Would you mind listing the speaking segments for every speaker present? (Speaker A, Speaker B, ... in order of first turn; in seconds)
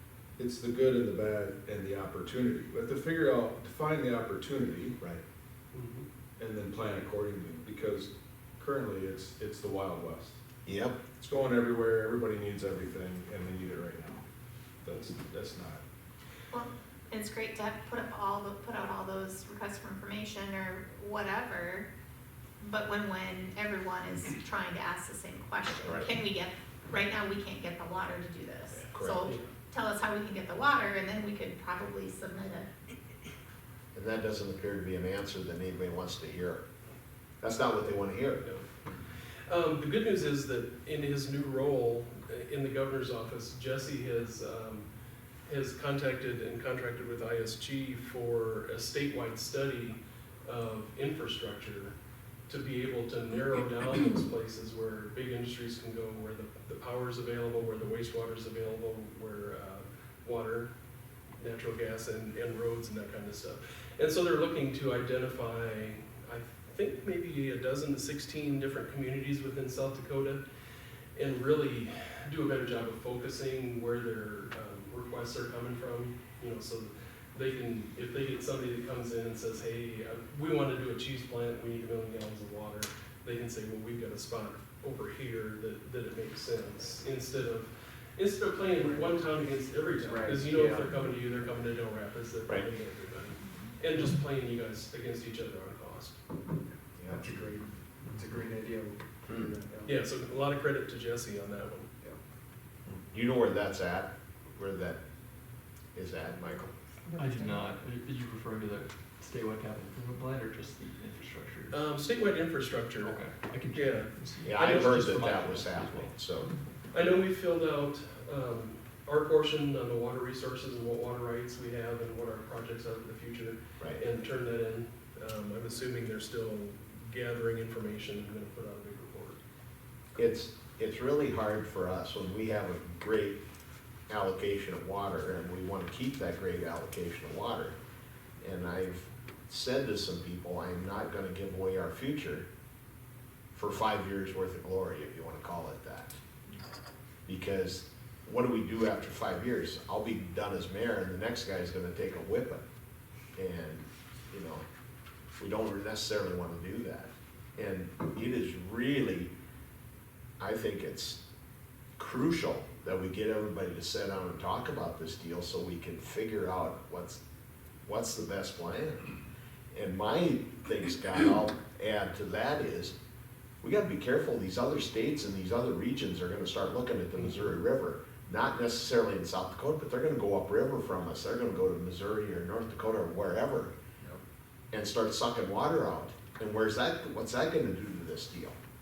Speaker A: 0.4-5.0, 6.4-10.4, 11.2-14.2, 14.8-15.8
Speaker B: 5.7-6.1, 38.4-38.7, 39.5-44.9, 45.5-52.0, 52.5-60.7, 61.4-70.4, 71.2-96.2, 99.8-101.9, 111.7-113.2, 113.7-115.1, 116.9-129.4
Speaker C: 10.7-11.0, 25.8-26.1, 28.9-29.3, 33.9-36.6, 37.4-38.4, 97.0-97.2, 102.9-105.0, 106.0-106.7, 114.4-116.5, 130.2-133.4, 134.1-137.8, 138.4-142.5, 143.5-146.2, 147.3-152.6, 153.3-154.7, 155.4-159.3, 160.4-161.2, 162.0-167.2, 167.8-169.1, 169.7-172.9, 173.6-183.7, 184.7-188.6
Speaker D: 16.5-21.9, 22.6-32.7, 107.1-107.6
Speaker E: 88.8-89.1, 89.9-91.1, 97.0-100.0
Speaker F: 107.2-111.8, 113.0-116.1